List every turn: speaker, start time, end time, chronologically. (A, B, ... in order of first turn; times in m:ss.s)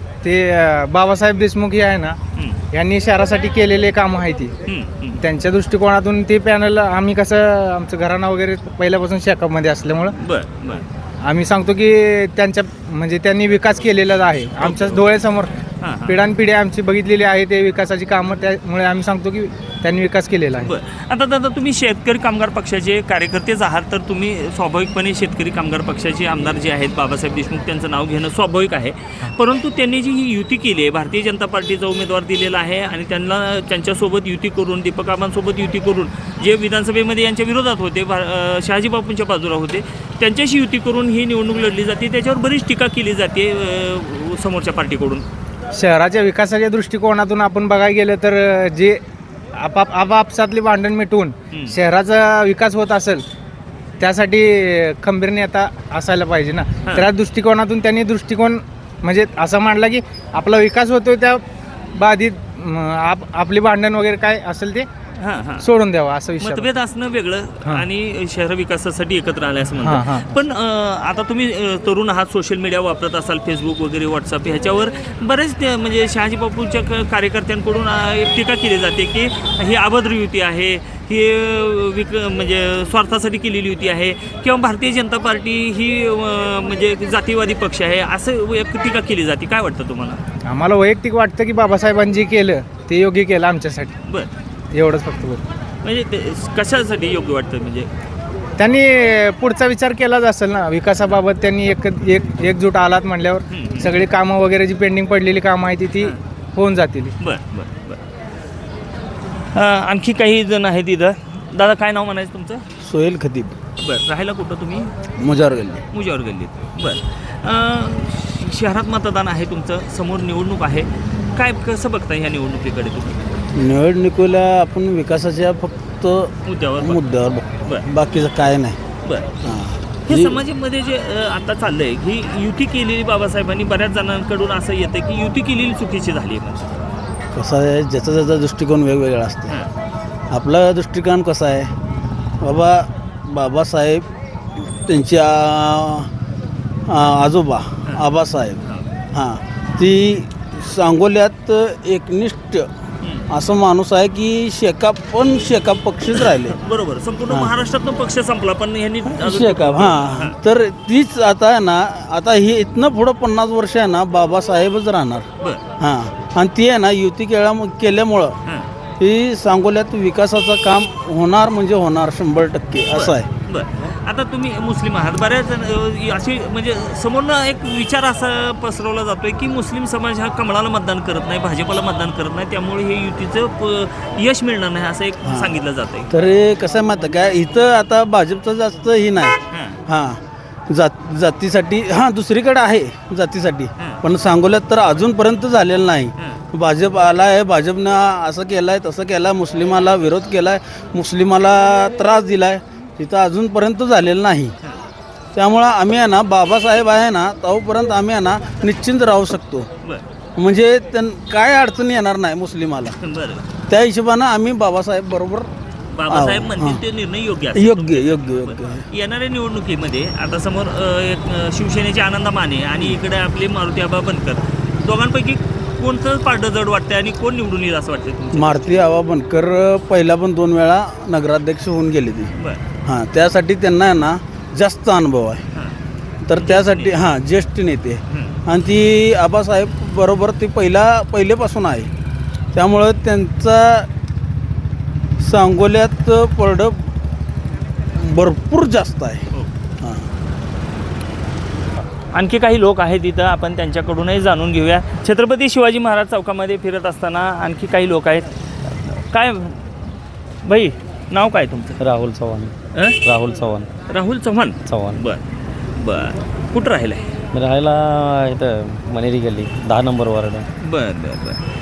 0:00.2-0:02.2 A
0:02.7-0:04.5 A
0:04.6-0:05.2 B
0:05.2-0:10.1 A
0:10.2-0:10.8 B
0:11.2-0:15.5 A
0:14.6-0:15.1 B
0:15.8-0:16.2 B
0:16.0-0:20.7 A
0:20.6-0:45.2 B
0:45.7-0:49.0 A
0:49.6-0:53.2 A
0:54.0-1:01.4 A
1:02.0-1:04.9 A
1:05.2-1:05.6 B
1:05.6-1:06.7 A
1:06.4-1:30.2 B
1:09.8-1:10.4 A
1:30.4-1:33.9 A
1:34.7-1:35.4 A
1:35.8-1:37.9 B
1:38.6-1:47.1 A
1:43.5-1:43.9 B
1:47.2-1:48.0 B
1:49.5-1:52.6 B
1:52.8-1:53.6 C
1:53.8-1:54.9 B
1:55.2-1:55.8 C
1:55.9-2:03.4 B
2:03.5-2:08.8 C
2:06.4-2:07.0 B
2:09.0-2:09.3 B
2:09.4-2:10.4 C
2:10.0-2:16.8 B
2:17.3-2:19.5 C
2:20.3-2:21.7 C
2:22.4-2:24.0 C
2:24.6-2:26.1 C
2:26.9-2:28.6 C
2:29.1-2:32.7 C
2:33.3-2:36.6 C
2:36.2-2:40.4 B
2:39.1-2:45.2 C
2:45.8-2:48.3 C
2:49.0-2:53.3 C
2:52.9-3:06.1 B
3:05.2-3:09.4 C
3:09.5-3:09.8 B
3:09.9-3:10.2 C
3:10.7-3:24.5 C
3:25.3-3:29.7 C
3:30.4-3:32.9 C
3:33.0-3:33.5 B
3:33.7-3:35.5 C
3:35.9-3:48.6 B
3:36.1-3:36.8 C
3:37.5-3:38.8 C
3:48.3-3:52.3 C
3:52.8-3:55.4 C
3:56.2-4:01.9 C
3:56.4-3:57.0 B
3:58.1-3:58.4 B
4:02.5-4:03.9 C
4:05.2-4:06.9 C
4:07.9-4:09.3 C
4:09.8-4:10.1 C
4:12.1-4:19.7 B
4:20.4-4:21.8 B
4:21.8-4:23.7 D
4:22.7-4:23.0 B
4:23.9-4:25.2 B
4:24.6-4:25.0 D
4:25.8-4:27.0 B
4:27.3-4:30.5 D
4:30.6-4:31.4 B